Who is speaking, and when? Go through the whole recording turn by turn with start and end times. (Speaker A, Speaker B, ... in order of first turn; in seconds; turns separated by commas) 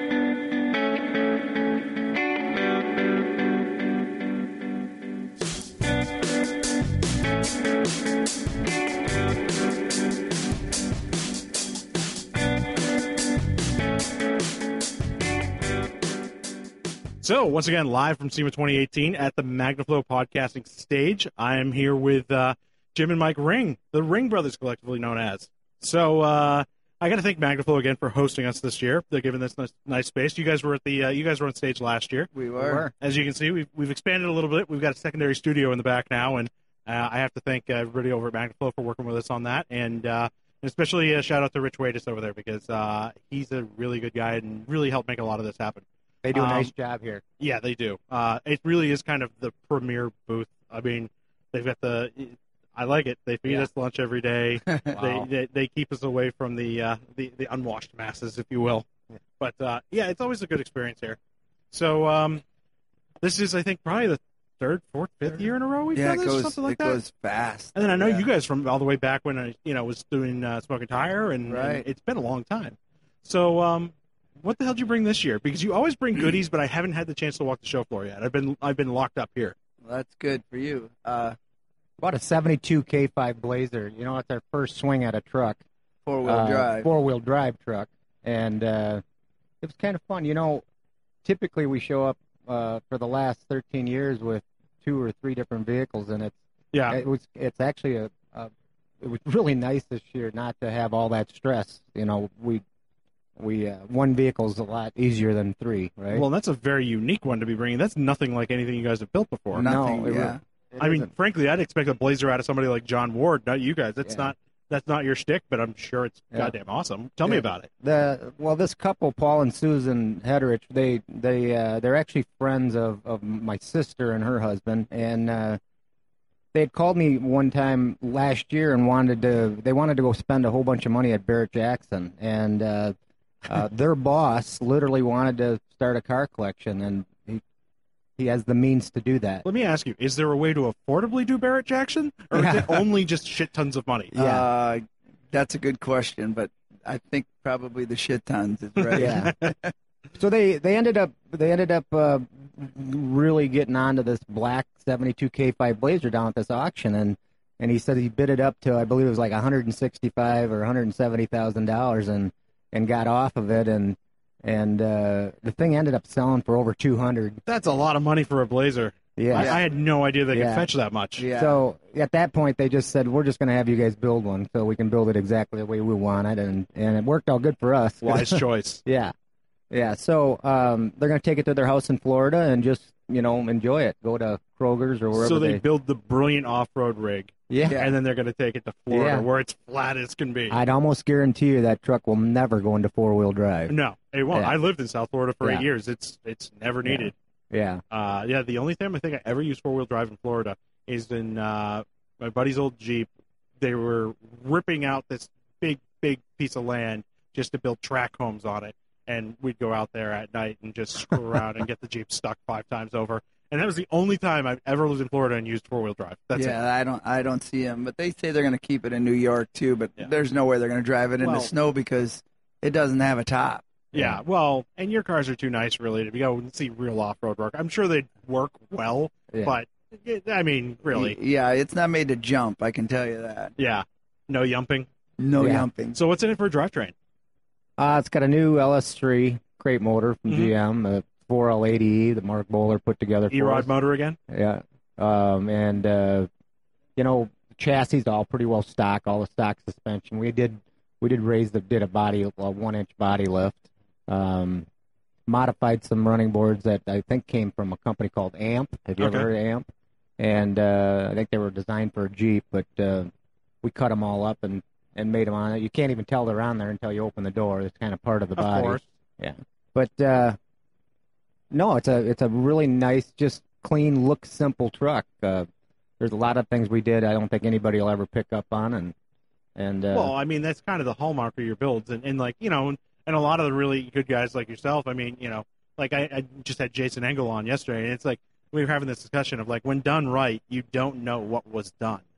Speaker A: 17.2-32.3, Speaker B: 32.3-32.9, Speaker C: 32.6-32.9, Speaker A: 33.0-46.7, Speaker C: 46.2-47.2, Speaker A: 47.4-58.9, Speaker B: 54.7-55.2, Speaker A: 59.4-61.2, Speaker A: 61.7-62.4, Speaker A: 63.2-67.0, Speaker B: 66.0-68.3, Speaker A: 67.8-79.5, Speaker B: 71.5-71.9, Speaker B: 79.8-81.4, Speaker C: 82.0-85.6, Speaker B: 86.1-86.9, Speaker C: 86.2-89.0, Speaker C: 89.6-90.6, Speaker C: 91.2-96.4, Speaker A: 96.7-97.0, Speaker C: 96.9-102.6, Speaker C: 103.4-106.2, Speaker A: 106.1-109.7, Speaker B: 109.5-110.4, Speaker C: 109.6-111.1, Speaker A: 110.8-117.7, Speaker C: 114.0-114.3, Speaker C: 117.2-125.6, Speaker C: 126.5-137.4, Speaker C: 138.2-139.4, Speaker A: 139.4-144.1, Speaker C: 142.3-142.9, Speaker B: 144.1-149.7, Speaker C: 144.2-144.5, Speaker A: 148.8-149.5, Speaker C: 148.9-149.3, Speaker C: 150.2-167.4, Speaker A: 167.5-171.3, Speaker C: 169.2-169.6, Speaker B: 169.3-169.6, Speaker C: 170.3-170.7, Speaker B: 171.2-171.6, Speaker C: 171.3-179.1, Speaker A: 178.0-178.8, Speaker C: 179.7-185.6, Speaker A: 185.1-190.6, Speaker C: 187.5-187.8, Speaker B: 187.6-187.9, Speaker C: 188.9-189.3, Speaker C: 190.5-193.8, Speaker A: 193.7-197.1, Speaker C: 196.8-197.8, Speaker A: 197.9-203.1, Speaker A: 203.6-216.6, Speaker B: 216.3-223.7, Speaker A: 221.2-221.5, Speaker A: 223.9-231.2, Speaker C: 223.9-224.2, Speaker C: 229.3-229.6, Speaker B: 230.9-233.5, Speaker A: 233.6-234.9, Speaker B: 235.2-236.0, Speaker C: 235.4-235.7, Speaker A: 235.9-236.9, Speaker C: 237.8-243.7, Speaker A: 243.3-244.2, Speaker C: 244.3-246.3, Speaker C: 247.0-254.7, Speaker C: 255.3-259.7, Speaker A: 259.0-259.3, Speaker C: 260.2-263.1, Speaker C: 263.6-270.4, Speaker A: 268.4-268.8, Speaker C: 271.5-275.5, Speaker C: 276.0-278.9, Speaker C: 279.6-280.1, Speaker A: 279.9-292.0